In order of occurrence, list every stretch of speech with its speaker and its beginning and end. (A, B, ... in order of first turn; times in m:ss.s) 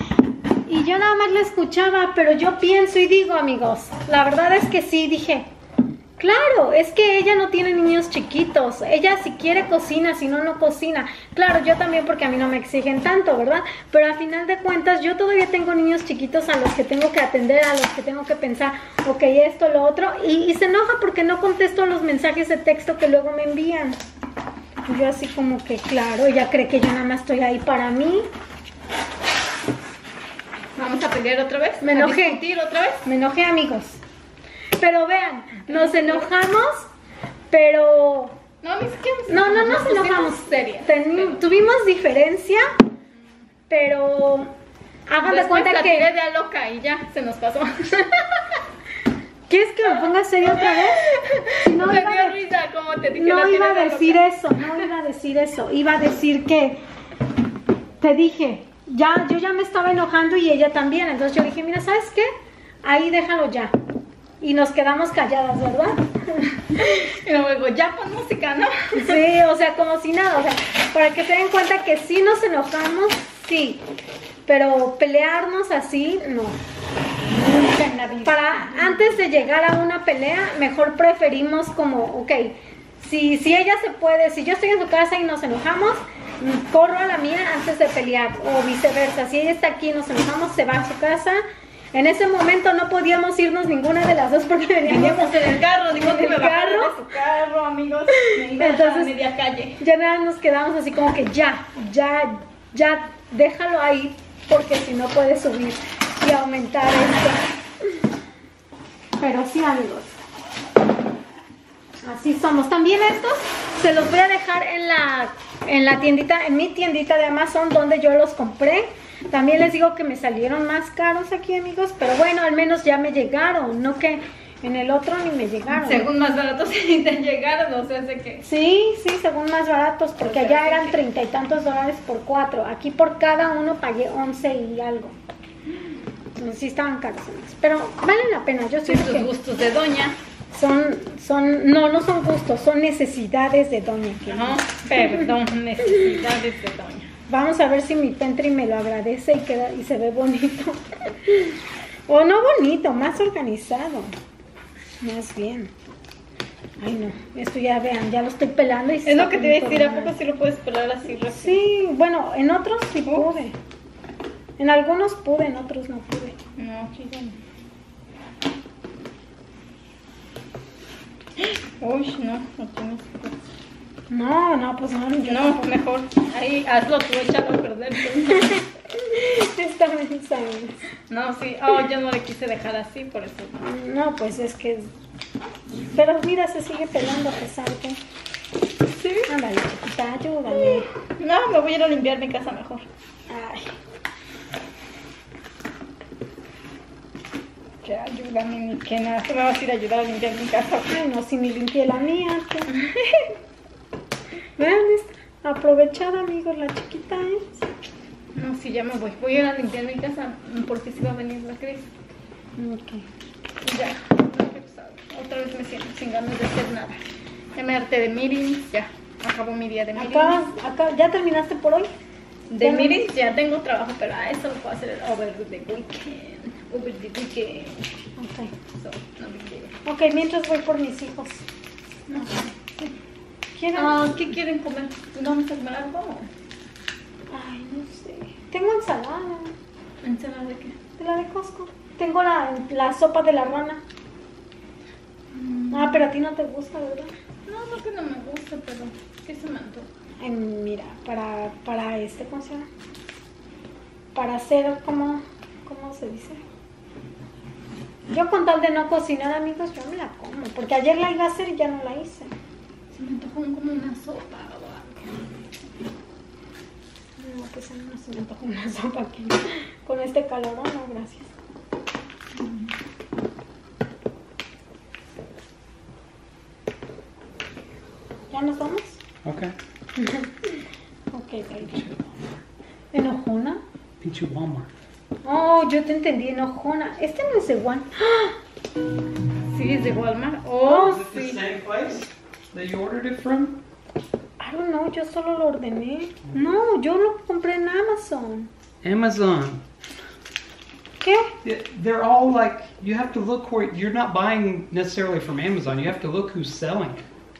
0:00.6-0:05.5 A
0:06.2-0:24.0 A
0:24.9-0:28.2 A
0:30.8-0:33.0 B
0:31.8-0:32.4 A
0:33.0-0:34.0 A
0:34.8-0:36.9 A
0:35.7-0:36.3 B
0:37.5-0:38.4 A
0:38.6-0:41.4 B
0:39.3-0:42.6 A
0:43.7-0:44.5 A
0:45.1-0:46.1 A
0:45.2-0:48.6 B
0:49.5-0:51.0 A
0:50.4-0:54.2 B
0:51.6-0:52.4 A
0:53.1-0:56.8 A
0:58.0-1:02.3 A
1:02.8-1:03.7 A
1:04.4-1:06.9 A
1:06.8-1:09.2 B
1:08.9-1:13.8 A
1:14.4-1:16.6 A
1:17.4-1:19.1 B
1:18.2-1:31.4 A
1:31.9-1:37.0 A
1:34.8-1:39.8 B
1:38.6-1:39.1 A
1:39.8-1:47.4 A
1:49.2-1:50.1 A
1:52.0-2:06.1 A
2:05.7-2:08.4 B
2:08.4-2:15.2 A
2:10.2-2:11.0 B
2:16.4-2:19.3 A
2:18.8-2:20.2 B
2:20.5-2:25.3 A
2:24.3-2:27.1 B
2:27.3-2:34.1 A
2:35.0-2:35.7 A
2:36.8-2:40.1 A
2:39.0-2:41.6 B
2:41.3-2:43.6 A
2:43.0-2:43.3 B
2:44.6-2:46.4 A
2:46.6-2:47.4 B
2:51.4-2:53.4 B
2:54.1-2:55.7 A
2:55.2-2:58.6 B
2:59.0-3:00.8 A
3:01.1-3:03.6 B
3:03.6-3:04.9 A
3:05.9-3:08.0 A
3:08.9-3:09.3 B
3:09.2-3:10.9 A
3:11.2-3:12.8 B
3:13.3-3:13.7 A
3:17.8-3:21.0 B
3:20.9-3:22.8 A
3:24.6-3:27.6 A
3:28.3-3:31.9 B
3:32.6-3:33.0 A
3:33.6-3:37.0 B
3:37.5-3:40.4 B
3:39.9-3:41.9 A
3:42.5-3:47.8 B
3:42.6-3:43.0 A
3:48.2-3:48.5 A
3:48.8-3:49.8 B
3:49.8-3:51.4 A
3:52.1-3:52.9 B
3:53.5-3:54.0 A
3:53.7-3:56.3 B
3:57.3-3:59.5 A
4:00.0-4:00.8 B
4:01.0-4:03.8 A
4:05.3-4:06.1 B
4:05.7-4:07.1 A
4:07.5-4:09.9 B
4:10.2-4:12.7 A
4:14.1-4:16.4 A
4:18.1-4:22.3 A
4:22.9-4:25.2 B
4:27.2-4:31.3 A
4:32.3-4:32.7 B
4:38.3-4:39.0 A
4:39.2-4:39.5 C
4:40.0-4:41.8 A
4:41.7-4:42.4 C
4:42.9-4:43.6 A
4:44.0-4:44.7 C
4:45.2-4:48.4 A
4:49.5-4:51.4 B
4:50.6-4:51.0 A
4:50.7-4:53.6 C
4:54.4-4:58.5 A
4:58.8-4:59.6 C
5:01.0-5:01.3 A
5:01.4-5:07.1 C